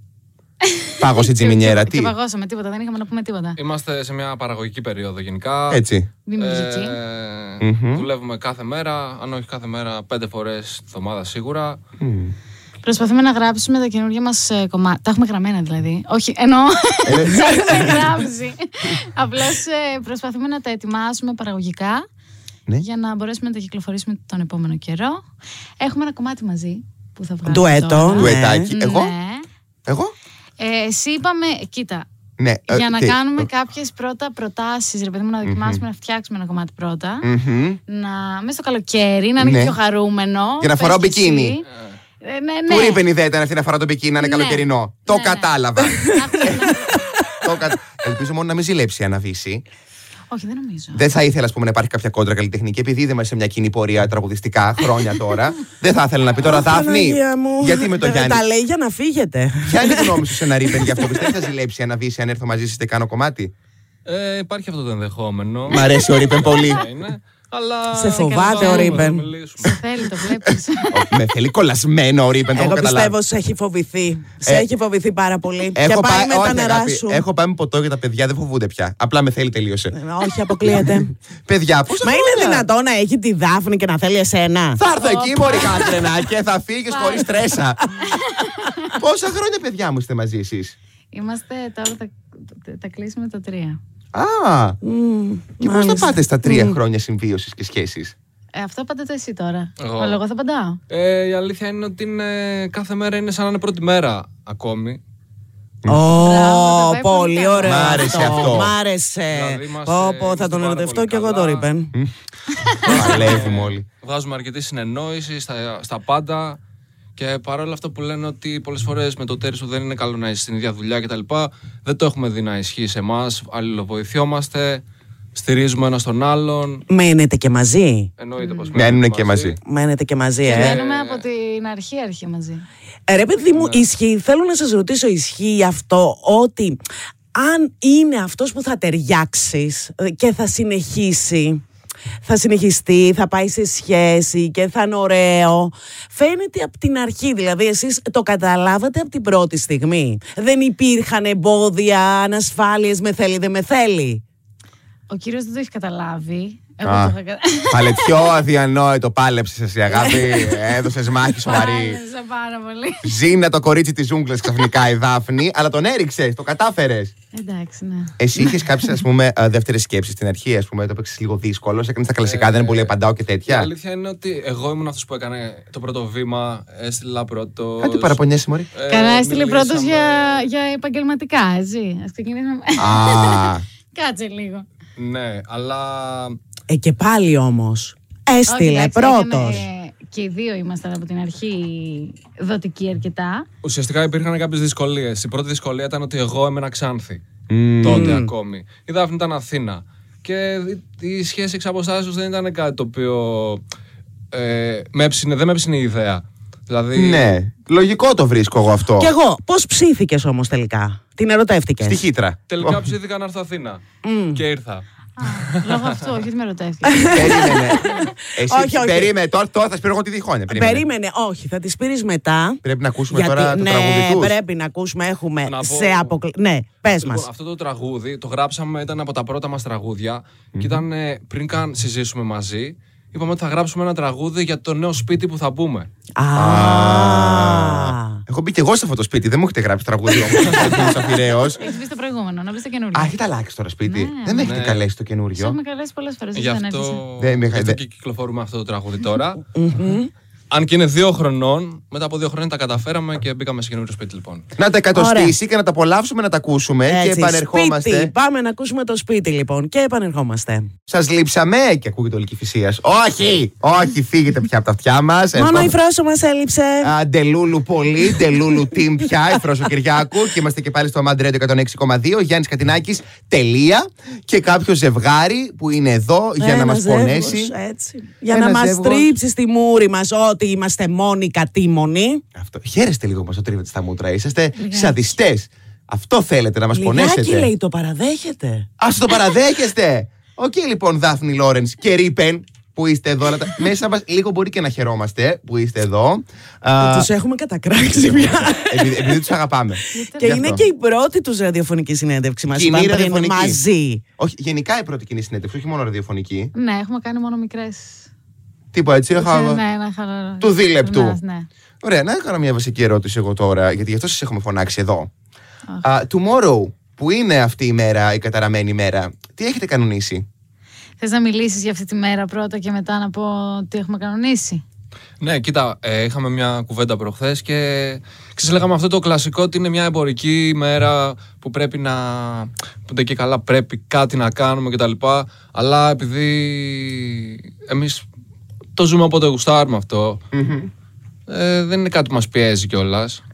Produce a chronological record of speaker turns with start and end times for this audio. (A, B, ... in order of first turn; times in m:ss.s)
0:01.0-0:02.1 A
0:01.2-0:03.6 B
0:03.6-0:05.8 C
0:05.7-0:06.1 A
0:06.2-0:07.0 B
0:06.4-0:11.8 C
0:07.6-0:08.0 A
0:12.0-0:12.3 A
0:12.8-0:22.0 B
0:17.1-0:18.1 A
0:17.4-0:18.0 D
0:22.8-0:25.2 B
0:25.8-0:29.4 B
0:27.4-0:28.7 D
0:28.1-0:29.1 A
0:29.8-0:30.1 A
0:30.6-0:32.0 B
0:32.4-0:33.5 A
0:32.7-0:37.3 B
0:35.4-0:35.8 A
0:37.2-0:37.8 A
0:37.9-0:41.6 B
0:39.4-0:39.7 A
0:40.6-0:41.6 A
0:42.2-0:43.0 B
0:42.7-0:46.7 A
0:44.2-0:45.5 B
0:46.0-0:47.0 B
0:47.4-0:49.6 A
0:50.3-0:51.0 B
0:50.9-0:58.4 A
0:56.4-1:01.3 D
0:59.6-1:03.5 A
1:04.0-1:09.8 C
1:05.7-1:06.8 A
1:07.9-1:09.3 D
1:08.2-1:09.0 B
1:09.6-1:11.0 B
1:10.9-1:13.1 A
1:12.5-1:17.2 D
1:15.7-1:19.9 A
1:19.9-1:21.1 D
1:21.4-1:22.7 A
1:22.0-1:24.8 D
1:24.8-1:27.8 A
1:24.9-1:26.1 B
1:26.9-1:27.3 B
1:28.1-1:28.9 B
1:29.0-1:30.7 A
1:31.1-1:33.8 B
1:34.1-1:34.8 A
1:34.8-1:36.8 D
1:35.6-1:38.1 A
1:38.5-1:40.8 B
1:39.8-1:40.2 C
1:40.9-1:45.0 C
1:45.9-1:51.9 D
1:46.2-1:48.5 B
1:47.6-1:48.7 A
1:49.3-1:51.7 C
1:52.8-1:56.6 C
1:52.8-1:53.8 A
1:57.2-2:06.8 C
2:06.9-2:08.1 D
2:08.2-2:09.6 C
2:08.4-2:08.8 B
2:08.7-2:09.6 A
2:09.6-2:10.8 D
2:10.4-2:12.6 B
2:10.5-2:11.2 C
2:13.1-2:16.8 D
2:13.5-2:13.8 C
2:17.3-2:21.6 D
2:22.2-2:34.2 D
2:35.1-2:38.3 B
2:36.8-2:37.1 A
2:37.7-2:42.0 A
2:41.4-2:43.1 B
2:43.0-2:47.1 A
2:47.3-2:48.1 B
2:48.2-2:53.7 A
2:52.2-2:53.0 C
2:53.5-2:58.2 C
2:57.8-2:58.7 A
2:58.7-3:00.5 C
2:58.9-3:04.6 B
3:02.8-3:03.6 A
3:05.0-3:06.4 C
3:06.7-3:09.6 D
3:08.5-3:13.4 B
3:13.6-3:17.2 C
3:17.5-3:18.2 A
3:17.8-3:23.6 C
3:17.8-3:18.3 D
3:24.3-3:27.4 C
3:26.9-3:29.1 A
3:29.0-3:32.0 D
3:31.8-3:32.8 A
3:32.5-3:33.8 C
3:34.0-3:34.4 D
3:34.3-3:35.9 C
3:35.2-3:37.8 B
3:36.8-3:39.1 D
3:37.1-3:40.8 A
3:40.5-3:47.3 D
3:42.6-3:44.3 A
3:45.4-3:46.2 C
3:46.9-3:55.9 C
3:50.5-3:50.8 A
3:56.2-3:58.2 D
3:56.3-4:01.6 A
4:00.4-4:00.8 C
4:01.5-4:03.1 B
4:02.9-4:05.6 A
4:03.8-4:04.6 B
4:04.4-4:04.8 C
4:05.4-4:07.0 B
4:06.3-4:09.4 C
4:07.2-4:07.8 A
4:09.5-4:10.1 D
4:10.5-4:14.4 C
4:14.6-4:18.1 A
4:14.9-4:15.4 D
4:16.8-4:20.7 D
4:20.9-4:25.7 A
4:25.3-4:26.9 D
4:26.8-4:37.5 A
4:36.4-4:42.2 D
4:38.3-4:39.2 A
4:42.4-4:47.5 A
4:44.6-4:45.0 B
4:46.7-4:48.7 D
4:48.8-4:57.1 A
4:56.8-4:59.3 D
4:58.0-5:00.6 A
4:59.9-5:00.5 B
5:00.2-5:04.0 D
5:02.5-5:03.6 A
5:04.2-5:06.5 A
5:06.5-5:08.1 B
5:08.7-5:09.6 A
5:09.1-5:11.5 B
5:10.4-5:11.2 A
5:11.8-5:15.1 A
5:15.8-5:20.2 A
5:21.0-5:24.6 B
5:25.2-5:38.0 C
5:38.7-5:40.2 C
5:40.3-5:40.7 A
5:41.3-5:43.2 C